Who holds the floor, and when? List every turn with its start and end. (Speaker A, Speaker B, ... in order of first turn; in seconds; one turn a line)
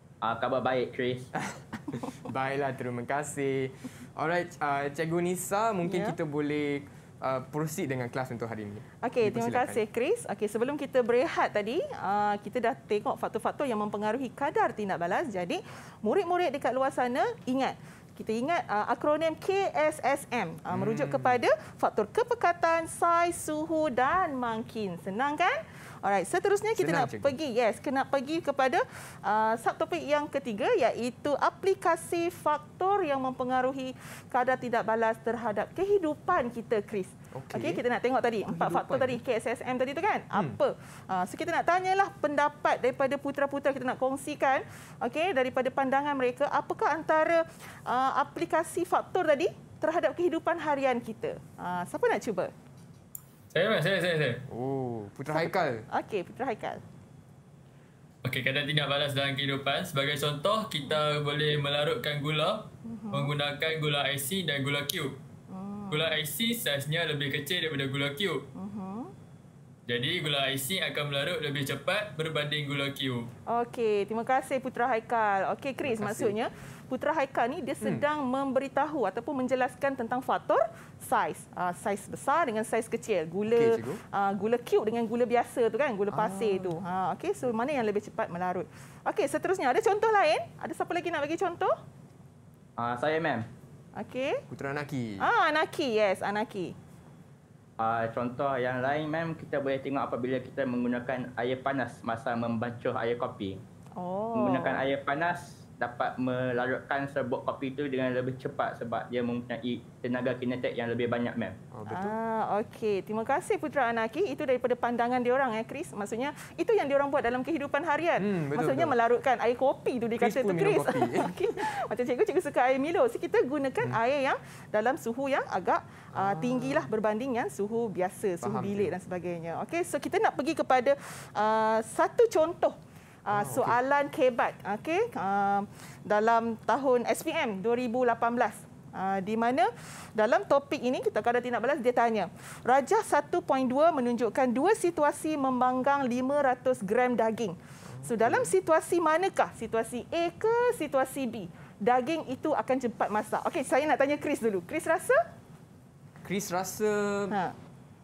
Speaker A: 0.2-1.3
Speaker B: 1.4-9.8
Speaker C: 5.8-6.1
Speaker C: 9.0-52.5
Speaker B: 20.7-21.4
Speaker B: 26.8-27.4
Speaker B: 37.3-37.8
Speaker B: 38.5-39.2
Speaker D: 53.5-54.4
Speaker B: 54.5-55.8
Speaker C: 55.3-56.8
Speaker D: 58.2-65.2
Speaker C: 62.8-63.3
Speaker C: 65.5-66.2
Speaker D: 65.9-68.4
Speaker C: 68.5-69.1
Speaker D: 69.9-73.3
Speaker C: 73.5-91.7
Speaker B: 75.8-76.4
Speaker B: 83.5-84.0
Speaker B: 86.1-86.8
Speaker A: 92.8-93.5
Speaker C: 94.0-94.4
Speaker B: 94.5-95.3
Speaker C: 95.2-96.7
Speaker A: 97.8-103.6
Speaker C: 104.0-104.9
Speaker A: 104.3-111.6
Speaker B: 111.7-112.2
Speaker C: 111.9-155.2
Speaker B: 118.2-118.9
Speaker B: 120.2-121.4
Speaker B: 126.1-126.9
Speaker B: 128.4-128.9
Speaker B: 133.3-133.8
Speaker B: 147.9-148.5
Speaker B: 156.2-157.3